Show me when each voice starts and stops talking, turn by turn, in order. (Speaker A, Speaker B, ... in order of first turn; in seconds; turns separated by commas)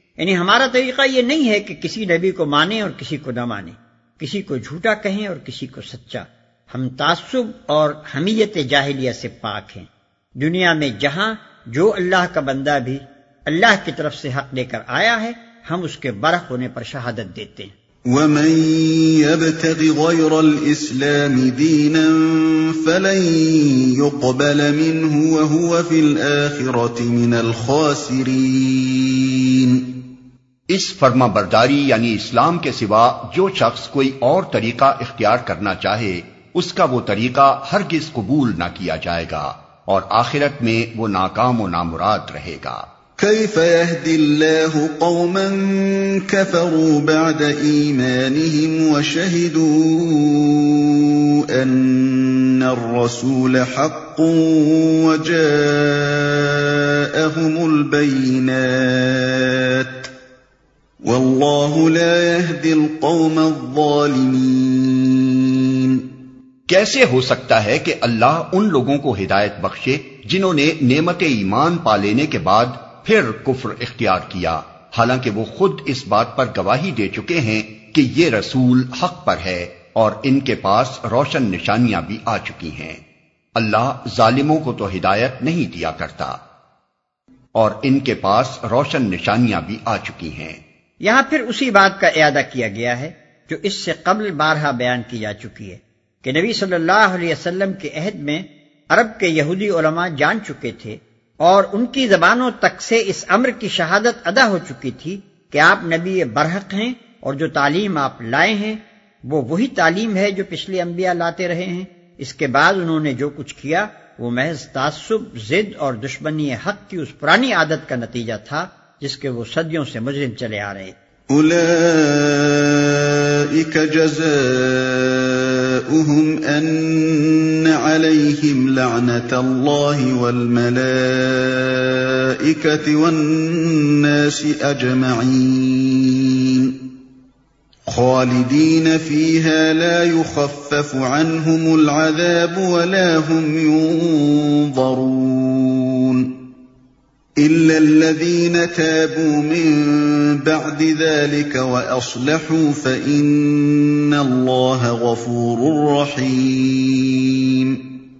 Speaker A: 0.2-17.7, Speaker B: 18.1-30.0, Speaker C: 30.7-42.8, Speaker B: 43.2-50.9, Speaker B: 51.5-60.1, Speaker B: 61.0-66.0, Speaker C: 66.7-83.0, Speaker C: 83.5-86.3, Speaker C: 87.5-90.6, Speaker A: 91.0-120.9, Speaker B: 121.3-136.8, Speaker B: 137.9-146.4, Speaker B: 147.4-157.8